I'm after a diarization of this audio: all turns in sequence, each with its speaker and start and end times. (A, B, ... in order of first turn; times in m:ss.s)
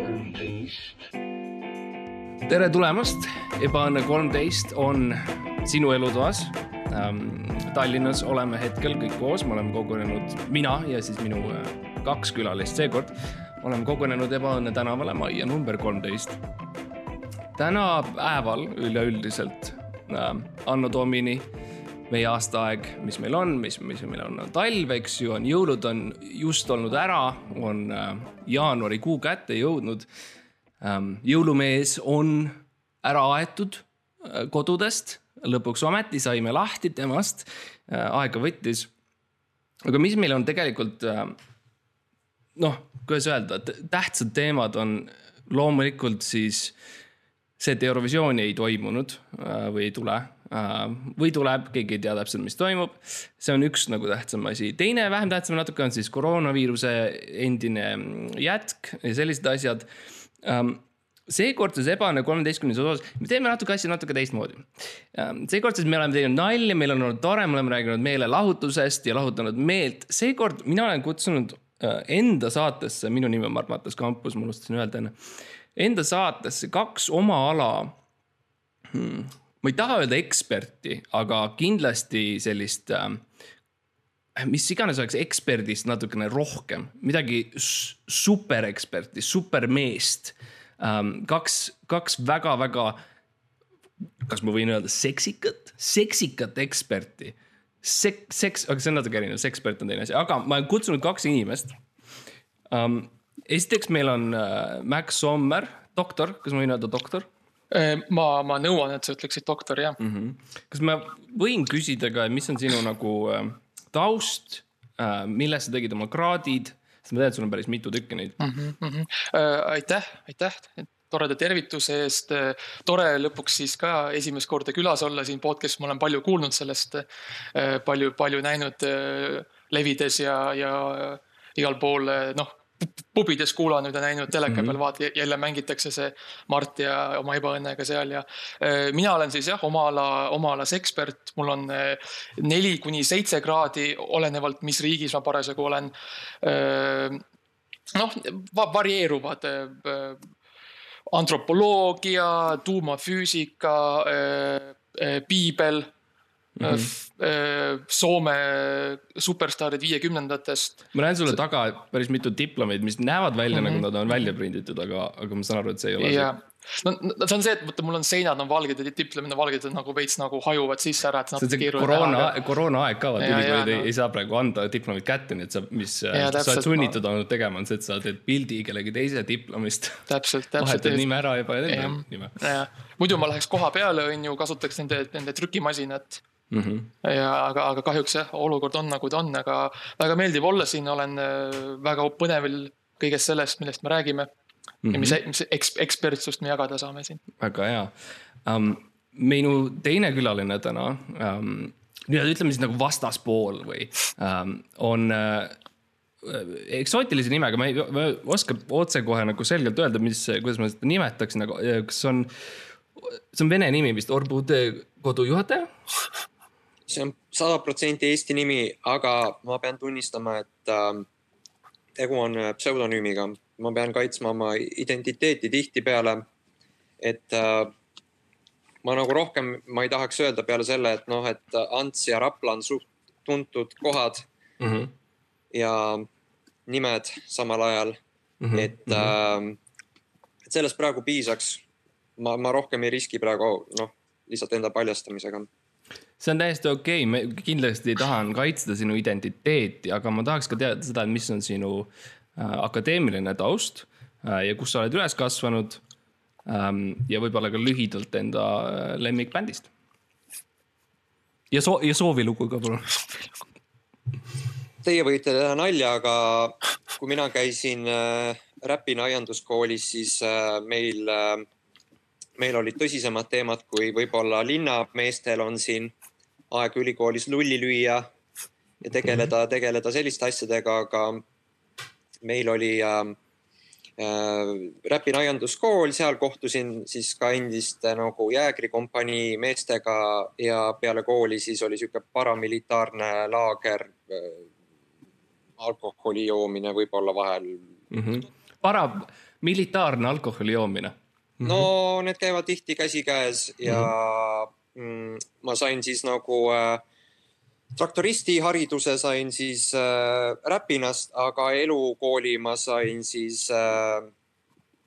0:02.5-0:16.4 A
0:17.6-0:21.5 A
0:22.1-0:30.1 A
0:30.8-0:38.9 A
0:39.8-0:41.4 A
0:42.6-0:46.8 A
0:47.6-0:59.9 A
1:00.4-1:15.2 A
1:15.8-1:18.0 A
1:18.9-1:23.2 A
1:24.4-1:33.0 A
1:34.2-1:41.8 A
1:42.7-1:47.3 A
1:47.7-1:50.0 B
1:50.0-1:58.4 A
1:58.4-2:27.2 B
2:14.5-2:14.8 A
2:27.9-2:30.2 B
2:31.1-2:35.9 B
2:36.6-2:36.9 A
2:36.6-2:40.9 B
2:40.9-2:46.3 A
2:43.5-2:43.8 B
2:46.0-2:52.4 B
2:51.4-3:02.4 A
2:53.2-2:53.9 B
2:56.1-2:57.0 B
3:00.1-3:01.0 B
3:01.7-3:06.2 B
3:06.5-3:06.9 A
3:07.0-3:14.3 B
3:14.8-3:15.2 A
3:14.9-3:17.2 B
3:17.4-3:17.9 A
3:18.4-3:25.6 A
3:26.2-3:32.3 A
3:33.0-3:35.7 A
3:36.9-3:41.1 C
3:42.0-3:46.2 C
3:47.0-3:47.7 C
3:48.8-3:54.3 C
3:54.6-3:54.9 A
3:55.5-3:56.1 C
3:56.7-3:58.0 C
3:58.4-3:59.1 A
3:58.5-3:59.6 C
4:00.5-4:01.6 C
4:02.2-4:05.5 C
4:06.2-4:15.8 A
4:16.5-4:19.7 A
4:21.5-4:23.0 A
4:24.8-4:31.5 C
4:32.4-4:35.9 C
4:36.5-4:38.1 C
4:38.8-4:41.2 C
4:42.2-4:43.2 C
4:44.0-4:54.5 C
4:55.6-4:57.7 C
4:57.9-5:01.7 A
5:01.4-5:06.8 C
5:07.8-5:14.1 C